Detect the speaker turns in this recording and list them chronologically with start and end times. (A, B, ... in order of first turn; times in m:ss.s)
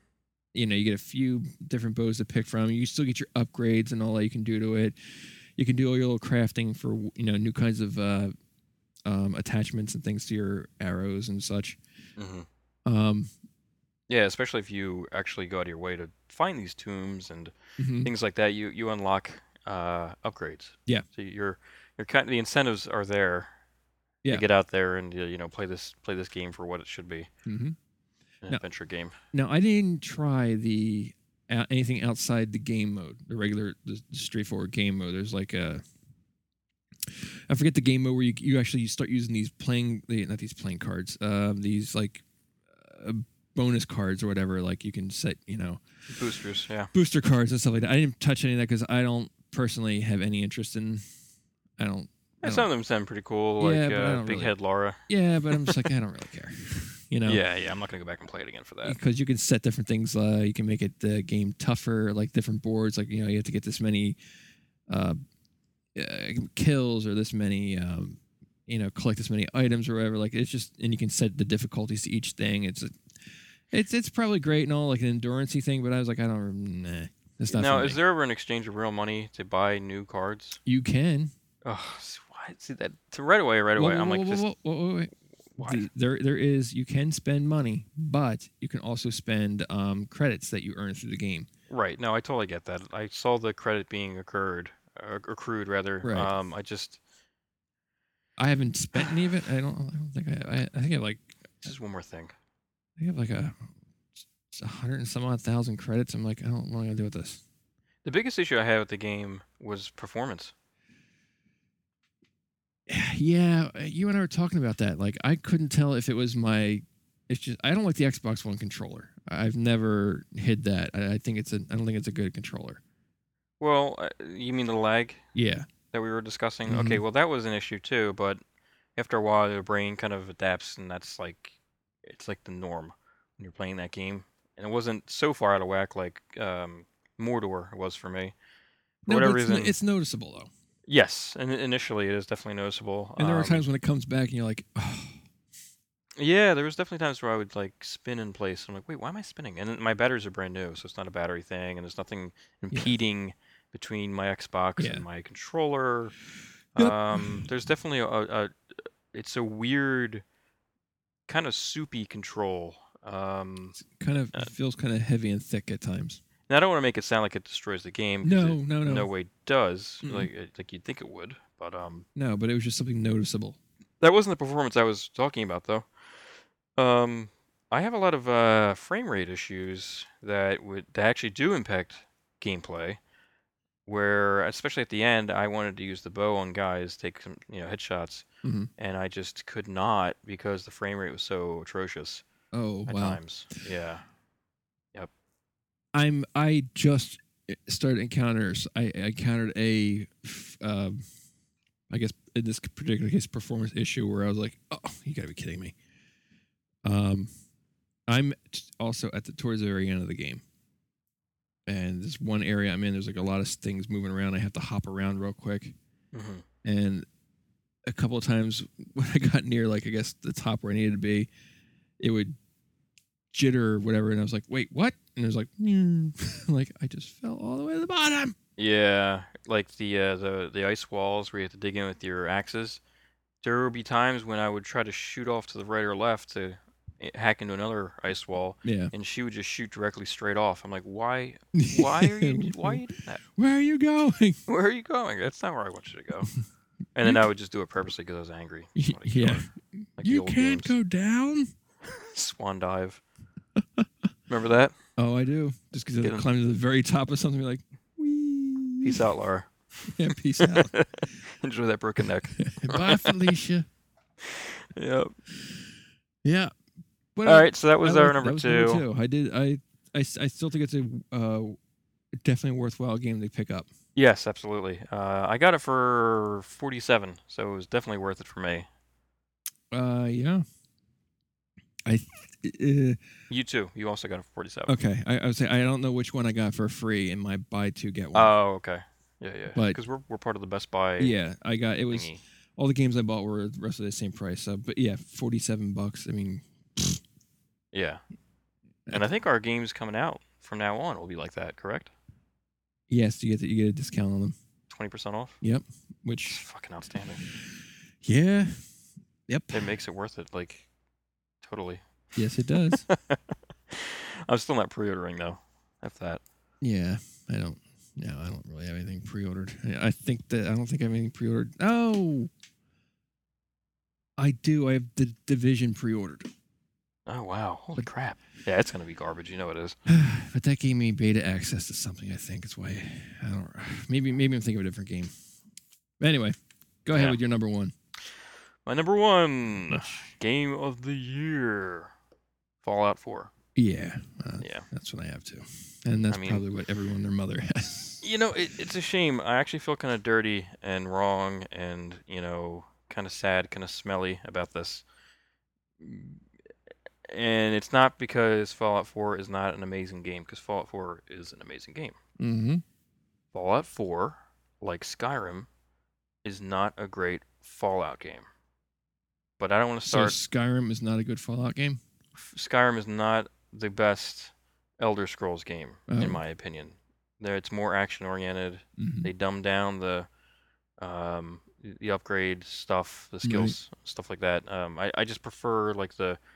0:00.5-0:08.3 A
0:09.0-0:11.8 A
0:12.2-0:12.5 B
0:12.8-0:13.3 A
0:14.1-0:23.5 B
0:17.8-0:18.1 A
0:24.3-0:27.3 B
0:27.4-0:27.8 A
0:28.4-0:29.2 B
0:29.3-0:35.8 A
0:37.0-0:45.8 A
0:46.1-0:46.9 B
0:46.9-0:51.0 A
0:51.8-0:52.7 A
0:52.4-0:55.0 B
0:53.6-0:54.5 A
0:55.1-0:57.4 A
0:55.5-0:55.8 B
0:57.2-0:59.0 B
0:58.8-1:04.2 A
1:04.9-1:05.2 A
1:05.9-1:12.9 A
1:13.7-1:18.0 A
1:17.5-1:20.6 B
1:20.6-1:21.3 A
1:21.6-1:24.4 B
1:23.8-1:31.5 A
1:25.6-1:25.9 B
1:31.7-1:37.0 B
1:36.0-1:36.3 A
1:38.4-1:41.7 A
1:41.6-1:42.3 B
1:43.0-1:43.7 A
1:44.2-1:47.4 A
1:48.0-1:50.5 B
1:52.9-2:02.8 A
2:03.6-2:05.2 B
2:05.3-2:05.7 A
2:05.9-2:08.4 B
2:06.7-2:07.0 A
2:09.0-2:18.3 B
2:19.0-2:20.5 A
2:19.1-2:19.8 B
2:20.9-2:23.6 B
2:23.2-2:25.2 A
2:26.2-2:36.1 B
2:34.8-2:35.0 A
2:36.7-2:38.5 B
2:36.8-2:37.4 A
2:39.1-2:40.2 B
2:41.3-2:43.8 B
2:43.8-2:46.2 A
2:46.5-2:52.0 B
2:48.2-2:49.1 A
2:50.0-2:50.3 A
2:52.1-2:53.6 A
2:54.0-2:55.9 B
2:56.8-3:03.0 B
3:03.8-3:08.2 B
3:08.4-3:08.7 A
3:08.8-3:12.2 B
3:12.5-3:13.2 A
3:12.9-3:14.0 B
3:15.9-3:21.0 A
3:21.9-3:25.7 A
3:26.8-3:27.3 A
3:28.1-3:30.4 A
3:31.6-3:35.7 A
3:36.1-3:36.4 B
3:36.6-3:37.0 A
3:37.8-3:41.3 A
3:42.0-3:42.3 A
3:43.3-3:48.4 A
3:48.6-3:52.8 B
3:53.4-4:03.2 B
3:58.6-3:58.9 A
4:01.5-4:02.8 A
4:03.4-4:04.4 A
4:04.5-4:06.3 B
4:06.9-4:10.7 B
4:08.8-4:11.5 A
4:11.9-4:13.0 B
4:13.6-4:13.8 A
4:14.3-4:14.8 B
4:15.0-4:19.0 A
4:16.0-4:16.2 B
4:18.8-4:23.2 B
4:19.9-4:20.8 A
4:22.4-4:23.7 A
4:24.2-4:25.1 B
4:26.2-4:26.5 A
4:27.1-4:31.6 A
4:27.2-4:28.8 B
4:32.1-4:33.7 A
4:33.9-4:38.7 B
4:39.7-4:40.4 A
4:41.8-4:43.0 A
4:43.3-4:44.8 B
4:44.7-4:48.3 A
4:48.1-4:51.1 B
4:49.5-4:49.8 A
4:51.0-4:57.0 A
4:51.9-4:52.2 B
4:57.7-4:58.0 B
4:58.9-5:01.9 B
5:02.9-5:04.3 A
5:04.7-5:05.4 B
5:05.4-5:06.4 A
5:06.2-5:07.2 B
5:08.0-5:08.6 A
5:09.3-5:09.7 A
5:09.5-5:10.6 B
5:11.4-5:11.8 B
5:12.1-5:12.8 A
5:12.7-5:16.2 B
5:16.6-5:22.3 A
5:24.2-5:26.3 A
5:27.1-5:29.8 B
5:29.9-5:35.1 A
5:36.0-5:37.7 A
5:36.9-5:37.2 B
5:38.6-5:41.9 B
5:42.6-5:43.3 B
5:43.5-5:48.0 A
5:44.4-5:44.6 B
5:46.1-5:46.4 B
5:48.0-5:54.8 B
5:55.8-5:56.2 B
5:57.1-6:02.0 B
6:02.2-6:02.6 A
6:03.3-6:05.5 B
6:06.2-6:08.2 B
6:09.4-6:10.2 B
6:09.8-6:11.8 A
6:12.2-6:20.1 B
6:15.9-6:16.2 A
6:18.8-6:19.1 A
6:20.8-6:26.2 B
6:23.2-6:23.6 A